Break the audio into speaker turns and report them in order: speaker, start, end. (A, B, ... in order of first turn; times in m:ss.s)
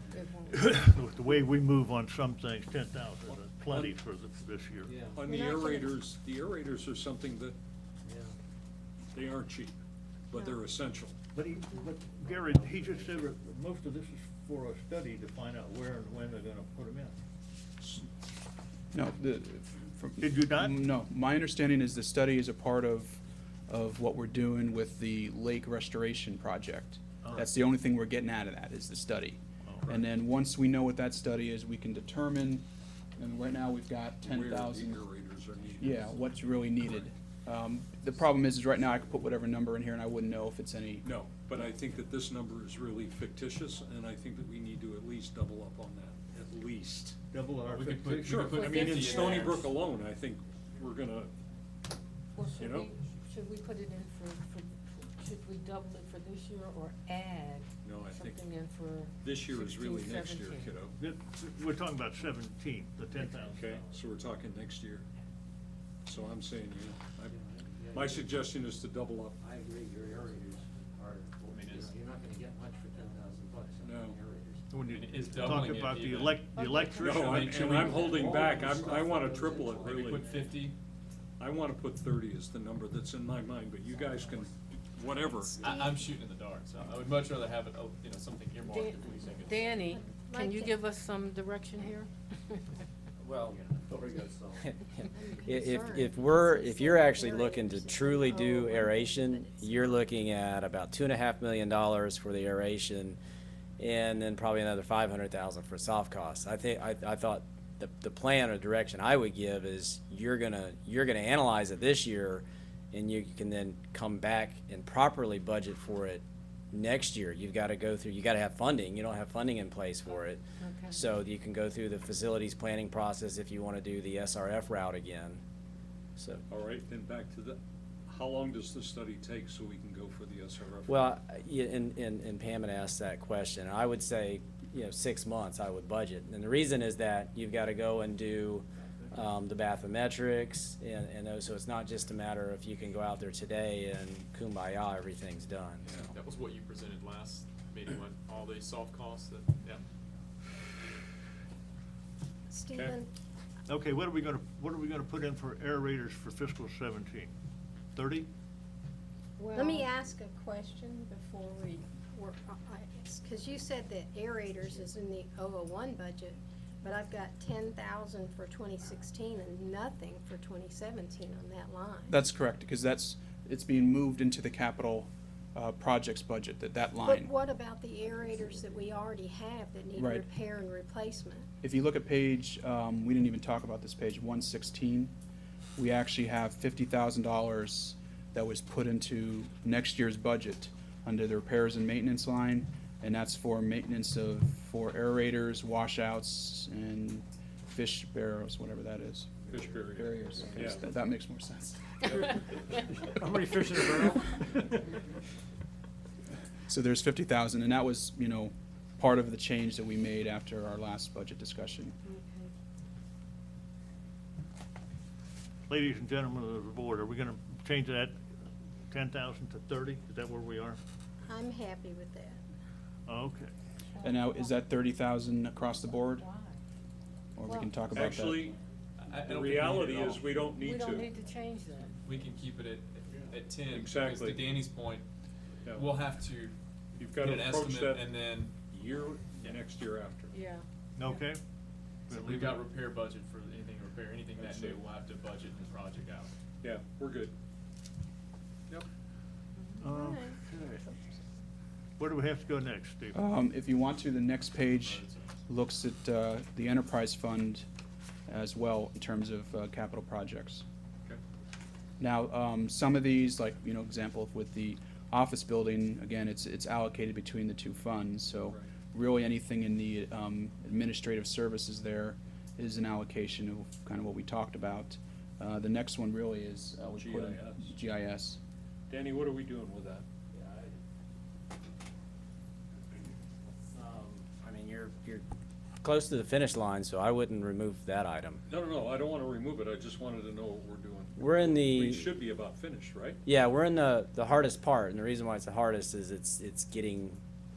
0:00.1-0:00.7 A
0:00.5-0:05.0 B
0:03.6-0:04.0 C
0:05.0-0:05.2 D
0:05.1-0:07.5 C
0:05.2-0:05.9 E
0:09.1-0:09.8 C
0:10.3-0:11.2 C
0:11.3-0:17.2 B
0:18.9-0:35.0 F
0:20.2-0:20.8 B
0:27.2-0:27.5 B
0:29.6-0:29.9 B
0:34.2-0:37.0 C
0:35.8-0:41.0 F
0:41.0-0:47.2 C
0:47.3-0:48.5 B
0:47.6-0:49.7 G
0:48.1-0:51.3 C
0:48.5-0:49.6 A
0:52.3-1:00.8 A
0:52.6-0:52.9 C
0:57.8-0:58.5 C
0:59.2-1:01.0 C
1:01.0-1:03.7 B
1:03.5-1:05.0 C
1:06.0-1:07.4 C
1:07.3-1:08.4 D
1:07.9-1:09.4 C
1:09.4-1:10.1 D
1:11.3-1:14.6 D
1:11.5-1:12.0 G
1:13.8-1:14.2 C
1:14.7-1:17.3 B
1:14.8-1:18.2 G
1:16.5-1:17.1 A
1:17.0-1:20.3 C
1:18.1-1:20.4 D
1:19.7-1:20.8 G
1:21.4-1:25.6 C
1:25.5-1:29.7 G
1:25.6-1:26.1 E
1:28.7-1:32.6 A
1:29.9-1:30.8 E
1:33.5-1:34.6 D
1:34.6-1:43.2 H
1:35.1-1:40.0 E
1:43.8-2:05.4 H
2:00.1-2:01.0 A
2:06.2-2:06.4 H
2:06.5-2:11.2 C
2:10.9-2:25.8 H
2:26.0-2:29.8 G
2:32.5-2:33.1 E
2:33.7-2:37.3 B
2:37.9-2:38.3 B
2:39.4-2:52.2 E
2:52.1-2:57.3 F
2:57.0-3:01.5 E
2:59.9-3:00.3 F
3:01.6-3:05.1 F
3:05.8-3:22.0 F
3:19.5-3:20.8 C
3:22.0-3:22.4 C
3:23.2-3:24.2 C
3:26.7-3:32.0 F
3:32.1-3:32.4 A
3:35.7-3:40.8 B
3:41.2-3:42.4 E
3:43.0-3:43.5 B
3:43.9-3:44.6 A
3:44.0-3:46.2 F
3:45.9-3:46.6 A
3:47.4-3:48.5 F
3:47.4-3:47.8 A
3:47.9-3:48.5 C
3:49.0-3:50.3 G
3:49.2-3:51.1 C
3:50.6-3:52.0 A
3:52.0-3:55.0 G
3:53.7-3:54.6 C
3:55.6-3:55.9 C
3:55.7-3:56.5 G
3:57.0-3:58.0 C
3:57.1-3:58.5 G
3:58.7-4:00.4 C
3:59.4-3:59.6 G
4:00.3-4:01.2 A
4:01.0-4:01.4 B
4:02.1-4:02.6 B
4:02.1-4:06.3 G
4:04.5-4:04.8 C
4:06.6-4:07.3 C
4:09.6-4:09.9 A
4:09.8-4:11.0 B
4:09.9-4:10.4 E
4:12.0-4:13.2 B
4:13.1-4:17.6 F
4:14.7-4:15.4 G
4:18.3-4:20.6 F
4:22.0-4:38.4 F
4:36.9-4:37.7 C
4:38.9-4:40.0 C
4:43.7-4:45.2 H
4:45.8-4:48.4 H
4:48.5-4:53.2 C
4:51.2-4:52.2 H
4:53.2-4:57.2 H